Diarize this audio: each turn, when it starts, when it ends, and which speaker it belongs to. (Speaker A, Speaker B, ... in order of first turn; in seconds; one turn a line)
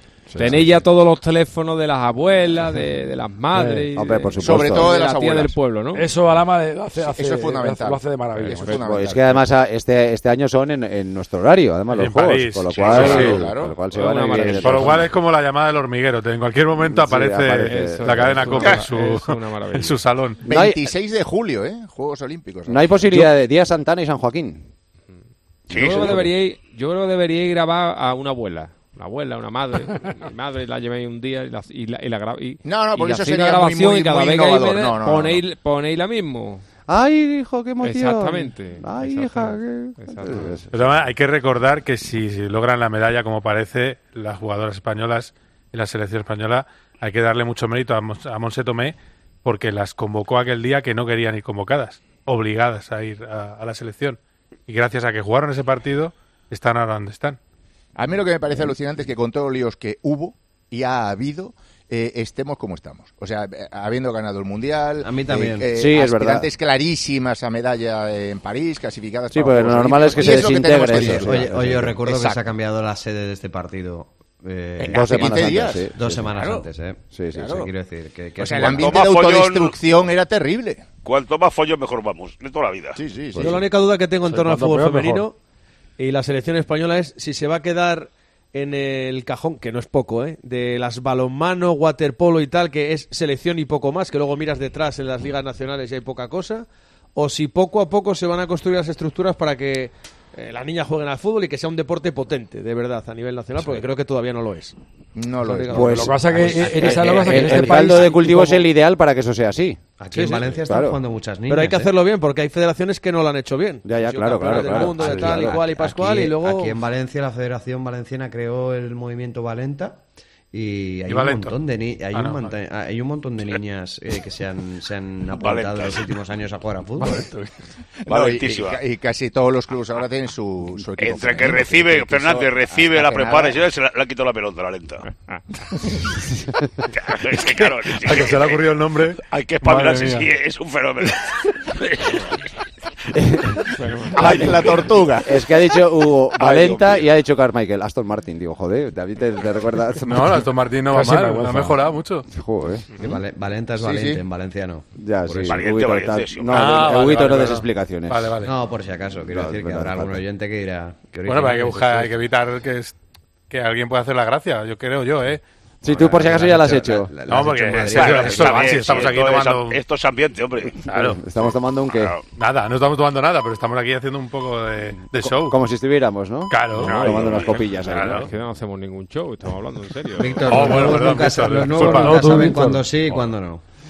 Speaker A: 0.3-0.6
Speaker B: 0.3-6.1
Speaker A: 3.5-3.9
Speaker C: 3.9-4.9
Speaker D: 4.4-5.5
Speaker A: 5.9-8.8
Speaker D: 7.0-9.4
Speaker B: 8.4-8.8
Speaker C: 8.7-15.1
Speaker E: 11.9-13.4
Speaker F: 12.7-13.2
Speaker D: 12.8-13.8
Speaker B: 13.9-15.0
Speaker E: 14.5-20.4
Speaker C: 16.9-18.5
Speaker B: 17.6-20.0
Speaker D: 20.4-23.0
Speaker C: 20.4-20.9
Speaker C: 22.7-24.6
Speaker F: 25.7-26.2
Speaker B: 25.7-36.6
Speaker C: 25.8-26.3
Speaker D: 32.6-35.4
Speaker C: 36.9-40.7
Speaker B: 37.8-40.5
Speaker E: 40.7-57.4
Speaker D: 58.0-72.5
Speaker G: 65.0-65.7
Speaker C: 65.7-66.5
Speaker C: 69.3-71.9
Speaker G: 70.2-78.9
Speaker D: 74.8-76.7
Speaker C: 74.8-76.3
Speaker C: 77.1-77.6
Speaker D: 77.3-77.7
Speaker D: 78.4-80.8
Speaker F: 78.6-79.8
Speaker F: 81.0-83.0
Speaker D: 83.0-83.6
Speaker H: 83.4-85.3
Speaker A: 84.3-85.3
Speaker H: 86.0-104.7
Speaker D: 105.1-106.4
Speaker C: 105.7-109.8
Speaker A: 105.7-108.1
Speaker G: 106.3-108.1
Speaker G: 110.0-111.9
Speaker H: 110.1-110.5
Speaker C: 110.7-111.0
Speaker H: 111.5-116.8
Speaker C: 113.8-115.6
Speaker G: 114.7-120.0
Speaker G: 120.5-127.2
Speaker E: 121.1-121.6
Speaker E: 122.1-122.5
Speaker F: 125.3-126.1
Speaker D: 128.1-133.5
Speaker F: 128.1-128.8
Speaker F: 131.0-135.0
Speaker F: 136.9-142.3
Speaker E: 137.9-140.3
Speaker C: 143.1-143.5
Speaker B: 143.8-144.4
Speaker D: 144.1-145.3
Speaker F: 144.2-144.8
Speaker C: 145.2-150.4
Speaker F: 146.4-147.0
Speaker E: 150.0-152.3
Speaker A: 150.9-151.8
Speaker C: 152.3-152.9
Speaker G: 153.0-155.5
Speaker D: 153.8-154.2
Speaker C: 155.0-158.3
Speaker F: 155.4-156.8
Speaker E: 156.5-158.5
Speaker G: 158.4-162.1
Speaker C: 159.3-160.2
Speaker E: 161.2-162.9
Speaker E: 163.5-165.4
Speaker C: 165.8-167.1
Speaker G: 165.8-169.1
Speaker E: 167.3-169.8
Speaker F: 167.4-172.2
Speaker E: 170.8-171.2
Speaker C: 170.9-172.1
Speaker E: 172.4-175.6
Speaker C: 175.1-178.3
Speaker E: 176.5-177.4
Speaker B: 176.8-181.0
Speaker G: 180.2-183.6
Speaker E: 180.4-182.5
Speaker A: 181.9-182.9